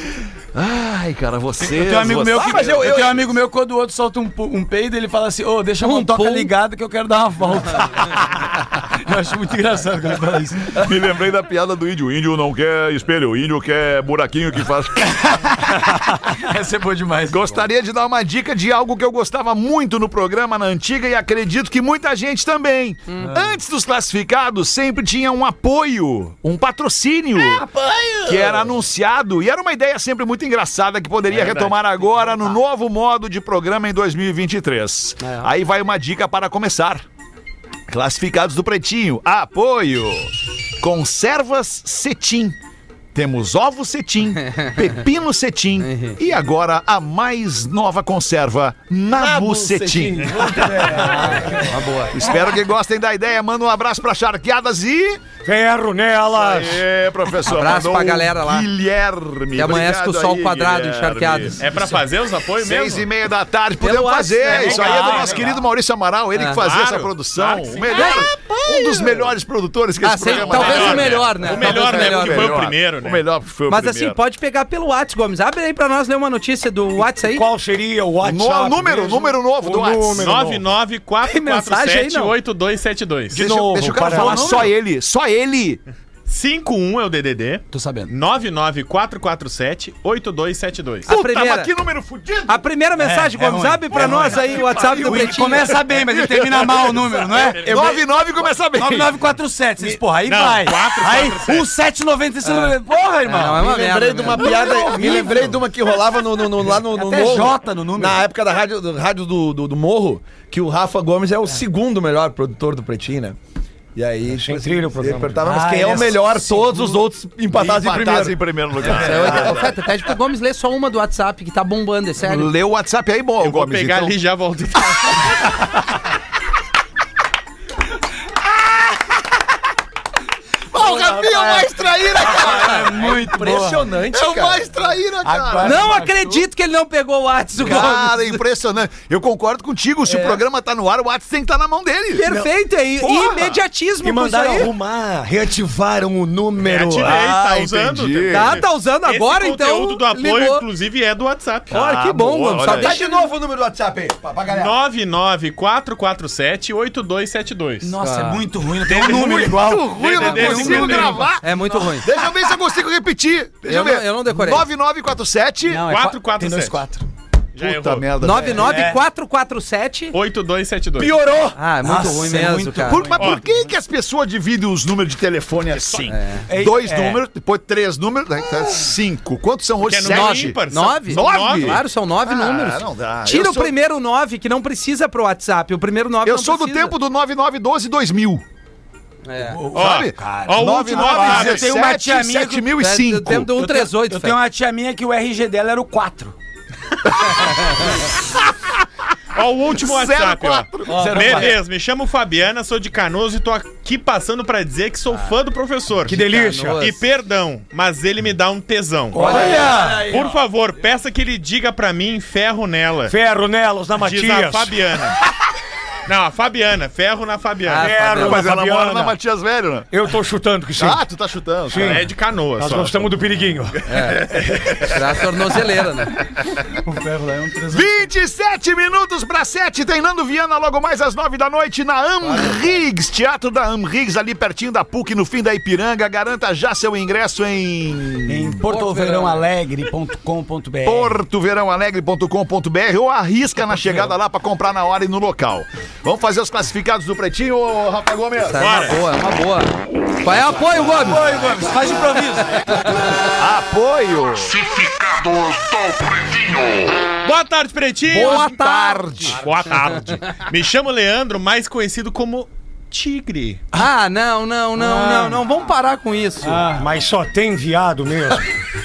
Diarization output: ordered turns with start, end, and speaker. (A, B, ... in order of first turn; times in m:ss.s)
0:00.5-0:02.9 A
0:01.6-0:10.9 B
0:02.4-0:03.2 C
0:05.8-0:06.5 D
0:10.7-0:15.5 A
0:15.2-0:17.6 B
0:17.3-0:27.7 A
0:23.2-0:23.5 B
0:27.3-0:28.8 B
0:28.2-0:37.0 A
0:31.3-0:31.8 E
0:32.0-0:32.5 B
0:35.2-0:35.5 B
0:37.9-0:42.6 A
0:43.1-0:50.3 A
0:44.4-0:45.0 D
0:45.8-0:46.2 D
0:49.1-0:51.4 C
0:50.5-0:51.7 B
0:51.5-0:52.2 D
0:52.1-0:55.2 A
0:55.4-0:56.8 F
0:56.3-1:01.7 A
0:57.4-0:58.7 D
0:59.5-1:01.6 D
1:01.6-1:03.1 E
1:02.6-1:14.2 A
1:03.8-1:05.4 D
1:04.4-1:05.6 B
1:05.0-1:05.3 F
1:06.6-1:08.2 E
1:07.9-1:09.2 D
1:10.0-1:12.6 D
1:10.2-1:13.2 E
1:13.7-1:17.5 D
1:17.1-1:20.7 F
1:18.2-1:20.4 A
1:20.2-1:23.4 E
1:21.2-1:22.3 D
1:23.3-1:25.8 A
1:23.3-1:24.7 F
1:24.0-1:24.3 C
1:26.3-1:31.1 E
1:27.7-1:28.1 B
1:31.1-1:31.7 D
1:31.1-1:32.6 A
1:32.5-1:35.7 D
1:33.0-1:37.7 B
1:33.9-1:39.2 A
1:37.3-1:37.7 E
1:37.6-1:38.1 C
1:38.7-1:43.7 B
1:40.2-1:41.7 E
1:43.2-1:45.2 D
1:43.5-1:53.4 C
1:44.5-1:45.6 B
1:46.7-1:48.2 B
1:53.9-1:59.4 C
1:54.3-1:55.4 F
1:55.4-1:57.0 B
1:57.5-1:59.8 A
1:58.8-2:02.5 D
2:02.2-2:04.1 A
2:03.4-2:05.5 E
2:10.7-2:13.1 A
2:10.7-2:14.9 C
2:11.0-2:11.7 B
2:12.2-2:13.9 B
2:14.1-2:15.9 A
2:15.2-2:16.4 B
2:15.6-2:18.3 D
2:17.6-2:22.2 A
2:22.1-2:24.7 D
2:22.2-2:27.2 F
2:26.6-2:31.7 E
2:27.0-2:28.6 A
2:28.3-2:30.6 D
2:31.7-2:33.0 A
2:31.7-2:33.0 D
2:32.7-2:34.8 C
2:34.5-2:37.9 E
2:37.8-2:42.0 B
2:38.0-2:38.4 D
2:39.0-2:45.8 A
2:39.2-2:41.3 E
2:41.4-2:42.1 D
2:43.6-2:44.6 D
2:45.6-2:47.0 B
2:45.9-2:46.9 E
2:47.5-2:48.1 E
2:47.6-2:48.7 A
2:48.2-2:50.2 D
2:48.3-2:49.0 B
2:50.1-2:51.2 E
2:51.0-2:53.4 B
2:51.5-2:53.1 D
2:52.9-3:03.7 A
2:53.2-2:53.4 E
2:55.7-2:56.1 E
2:56.1-2:56.4 D
2:56.5-2:57.2 B
2:59.8-3:01.8 E
3:00.1-3:06.9 D
3:06.2-3:08.4 A
3:09.2-3:09.6 D
3:09.3-3:12.7 B
3:09.7-3:11.7 E
3:09.7-3:13.5 A
3:12.8-3:14.4 D
3:13.4-3:16.3 B
3:19.3-3:26.2 E
3:19.6-3:21.4 A
3:20.9-3:21.5 B
3:20.9-3:21.5 D
3:21.0-3:21.5 C
3:26.0-3:26.8 F
3:26.1-3:27.0 D
3:26.8-3:33.1 E
3:29.1-3:30.2 B
3:29.2-3:29.7 D
3:29.2-3:30.4 C
3:33.1-3:34.8 F
3:34.0-3:35.2 E
3:36.0-3:37.9 E
3:37.7-3:38.4 D
3:37.8-3:39.1 F
3:38.1-3:39.9 A
3:39.9-3:41.0 F
3:40.8-3:42.0 A
3:41.7-3:44.5 F
3:41.7-3:43.1 E
3:43.9-3:44.2 D
3:44.5-3:44.7 A
3:44.8-3:46.1 D
3:46.8-3:48.1 B
3:47.7-3:58.6 A
3:58.2-4:01.2 B
3:58.7-3:59.4 D
4:00.8-4:08.7 A
4:08.4-4:11.5 D
4:08.6-4:09.0 E
4:10.8-4:13.1 B
4:12.6-4:13.3 D
4:13.2-4:14.8 A
4:17.1-4:18.4 E
4:18.1-4:19.4 A
4:18.1-4:19.4 D
4:19.4-4:23.6 E
4:23.7-4:26.7 D
4:24.7-4:25.4 B
4:26.4-4:26.9 B
4:26.6-4:28.5 F